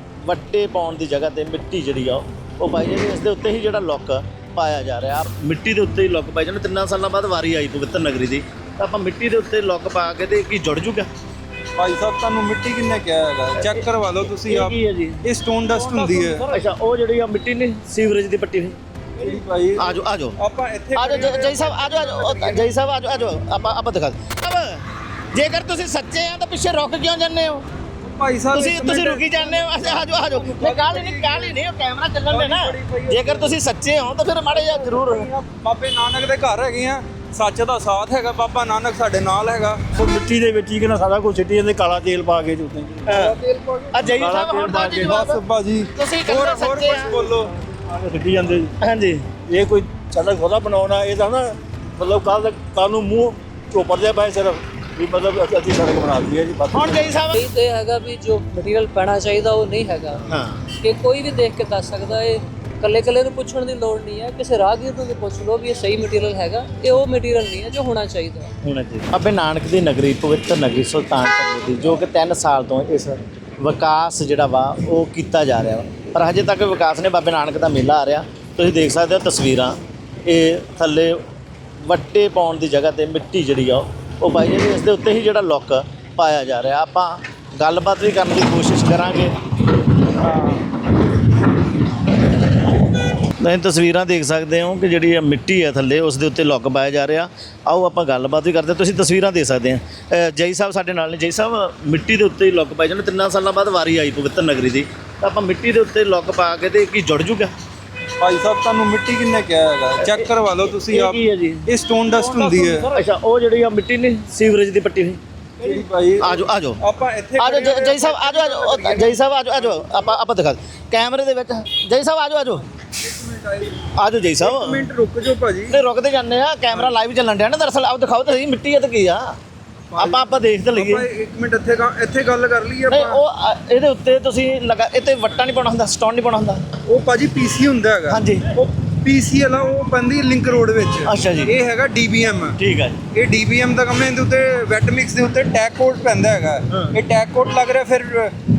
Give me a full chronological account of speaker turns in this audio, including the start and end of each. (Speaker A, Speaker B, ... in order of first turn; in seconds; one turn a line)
Speaker A: 0.2-11.1
Speaker B: 11.8-16.4
Speaker A: 14.5-18.8
Speaker B: 19.2-22.7
Speaker A: 19.8-20.4
Speaker A: 20.9-27.6
Speaker B: 28.0-31.6
Speaker A: 28.5-35.3
Speaker B: 32.3-33.5
Speaker B: 34.5-39.8
Speaker C: 39.9-43.2
Speaker A: 43.0-43.4
Speaker B: 43.1-47.5
Speaker A: 43.9-45.4
Speaker C: 44.1-45.1
Speaker A: 45.9-47.1
Speaker C: 47.8-48.7
Speaker A: 48.8-49.2
Speaker C: 49.5-57.1
Speaker A: 56.7-57.5
Speaker D: 57.3-60.2
Speaker A: 60.3-60.6
Speaker D: 60.8-68.5
Speaker A: 68.6-81.2
Speaker A: 81.8-89.3
Speaker A: 93.4-107.5
Speaker B: 108.2-112.9
Speaker A: 110.0-115.2
Speaker B: 115.6-120.1
Speaker A: 116.2-116.8
Speaker A: 117.4-122.6
Speaker B: 123.0-123.8
Speaker A: 124.0-124.8
Speaker B: 124.4-125.7
Speaker A: 125.7-129.3
Speaker B: 129.9-133.2
Speaker A: 129.9-131.0
Speaker A: 132.9-136.6
Speaker B: 136.9-142.6
Speaker A: 138.1-138.4
Speaker A: 141.0-141.5
Speaker A: 142.6-143.0
Speaker B: 143.1-148.3
Speaker A: 146.7-146.9